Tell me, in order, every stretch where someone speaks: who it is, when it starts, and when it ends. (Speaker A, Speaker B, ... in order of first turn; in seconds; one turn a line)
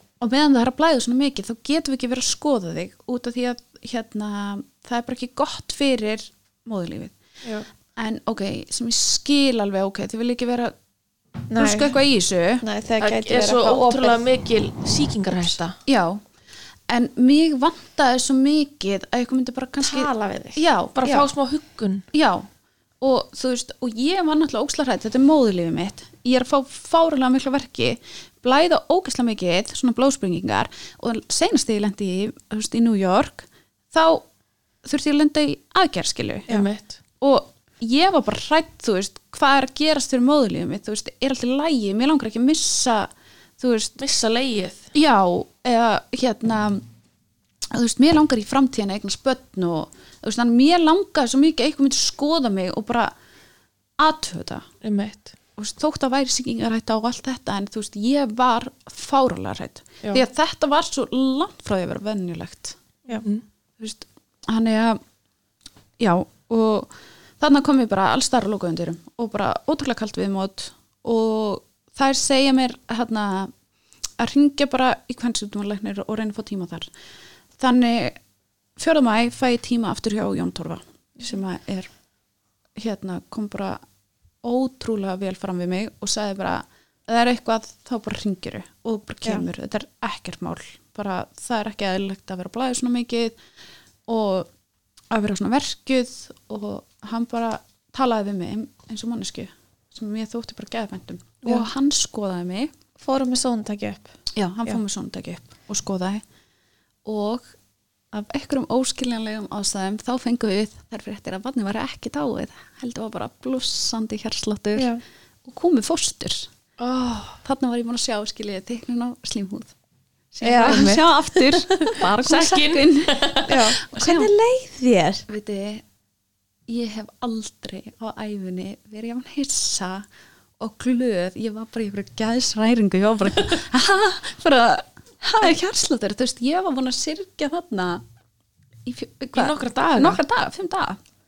Speaker A: 0.2-7.2
Speaker A: 8.0-10.7
Speaker B: 11.5-11.9
Speaker A: 11.5-12.6
Speaker B: 12.6-14.2
Speaker C: 13.0-15.7
Speaker A: 15.8-16.2
Speaker A: 16.9-21.3
Speaker B: 19.8-20.6
Speaker C: 20.9-22.0
Speaker A: 22.1-22.5
Speaker A: 23.0-34.2
Speaker A: 34.8-36.5
Speaker C: 36.5-37.0
Speaker A: 37.2-44.0
Speaker C: 44.0-44.9
Speaker A: 44.9-46.8
Speaker A: 47.7-53.1
Speaker A: 54.0-54.6
Speaker C: 54.8-55.3
Speaker A: 55.6-62.8
Speaker C: 63.2-63.4
Speaker A: 63.8-65.0
Speaker A: 66.0-73.5
Speaker A: 74.2-76.9
Speaker A: 77.6-78.2
Speaker A: 78.8-81.9
Speaker A: 82.8-83.8
Speaker A: 84.4-93.4
Speaker A: 94.1-94.5
Speaker A: 95.1-102.7
Speaker B: 103.0-104.1
Speaker A: 104.3-106.2
Speaker A: 107.0-107.5
Speaker A: 108.1-114.9
Speaker B: 114.8-115.0
Speaker A: 115.4-116.5
Speaker C: 116.8-117.4
Speaker A: 117.4-119.7
Speaker A: 120.3-124.3
Speaker B: 120.4-121.1
Speaker C: 120.4-121.1
Speaker C: 122.0-123.6
Speaker B: 123.4-125.2
Speaker A: 125.3-125.8
Speaker A: 126.7-130.1
Speaker A: 130.6-138.0
Speaker A: 138.8-141.0
Speaker C: 139.3-140.2